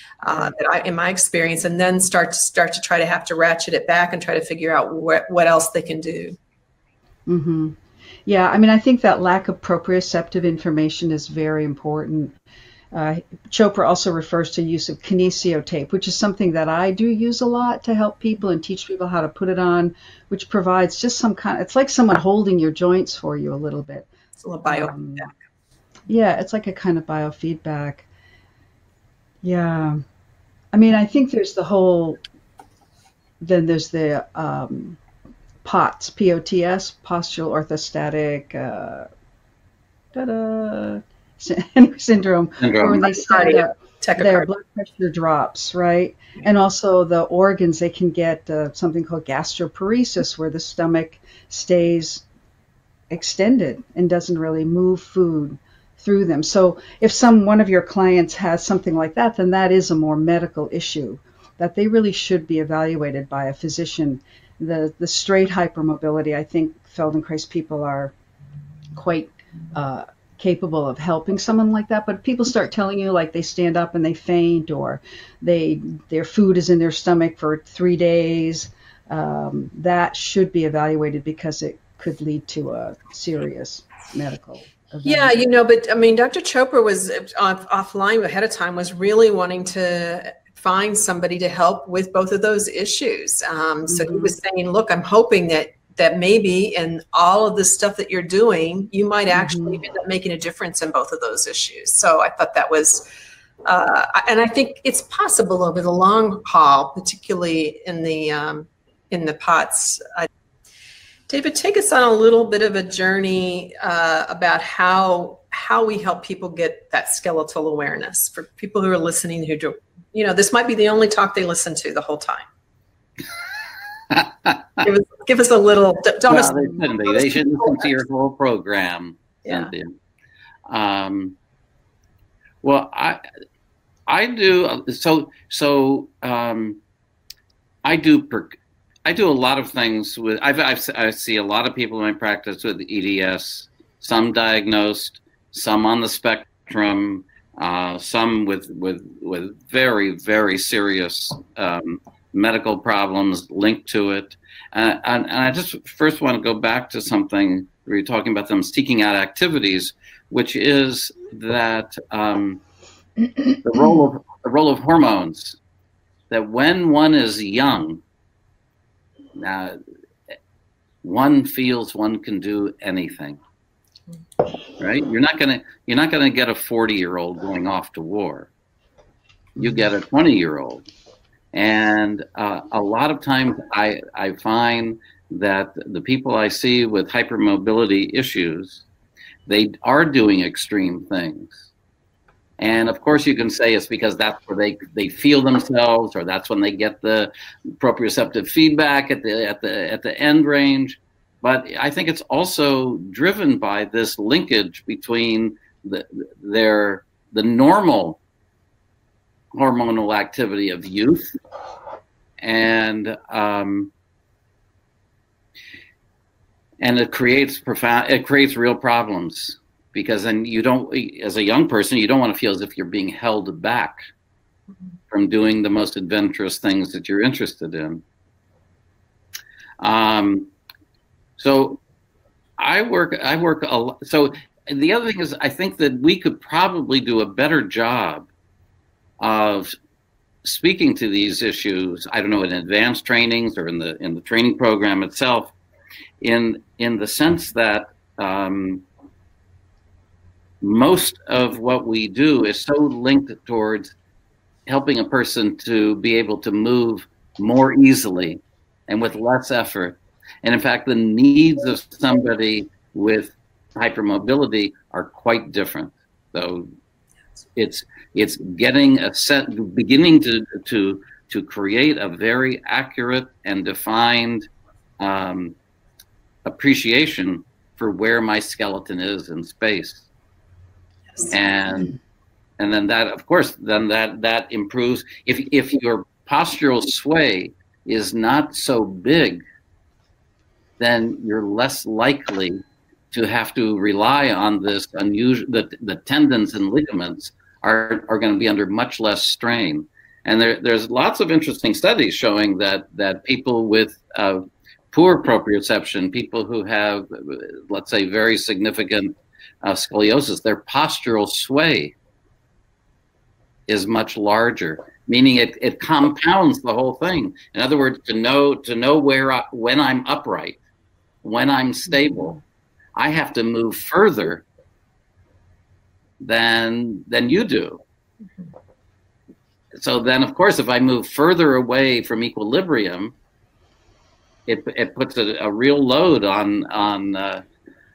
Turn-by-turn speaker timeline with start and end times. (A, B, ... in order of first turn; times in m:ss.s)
0:00.2-0:06.4 A
0:07.3-0:12.3 B
0:12.9-0:24.1 B
0:24.4-0:25.3 A
0:24.6-0:25.3 B
0:26.1-0:28.1 B
0:29.4-0:30.0 B
0:30.7-0:32.2 B
0:33.4-0:35.0 B
0:35.6-0:39.1 B
0:40.1-0:52.2 B
0:42.6-0:43.1 C
0:43.1-0:44.5 A
0:53.1-1:08.1 B
1:08.9-1:25.4 B
1:25.0-1:43.0 A
1:33.9-1:34.3 B
1:39.3-1:39.8 B
1:43.6-1:50.3 A
1:51.3-2:02.4 A
2:04.1-2:04.6 C
2:04.8-2:07.9 A
2:06.3-2:09.9 C
2:10.7-2:11.4 C
2:12.6-2:13.2 C
2:14.1-2:16.8 C
2:17.8-2:42.6 C
2:43.6-2:45.6 C
2:46.3-2:48.0 C
2:49.4-2:49.8 C
2:51.0-2:53.4 C
2:54.8-2:58.5 C
2:59.6-3:00.8 C
3:01.5-3:08.8 C
3:09.4-3:11.7 C
3:12.6-3:28.2 C
3:29.5-3:31.4 C
3:32.4-3:33.9 C
3:36.8-3:44.0 C
3:45.1-3:48.0 C
3:49.8-3:50.5 C
3:51.4-3:51.8 C
3:52.6-3:58.3 C
3:59.2-3:59.7 C
4:00.4-4:05.5 C
4:06.2-4:08.8 C
4:10.6-4:13.9 C
4:14.7-4:26.7 C
4:27.6-4:34.4 C
4:35.0-4:35.6 C
4:36.4-4:40.0 C
4:41.3-4:41.9 C
4:42.6-4:49.4 C
4:50.8-5:12.0 C
5:13.7-5:20.6 C
5:21.2-5:22.4 C
5:21.9-5:22.4 B
5:23.0-5:24.4 C
5:26.2-5:27.8 C
5:29.7-5:33.1 C
5:34.4-5:37.4 C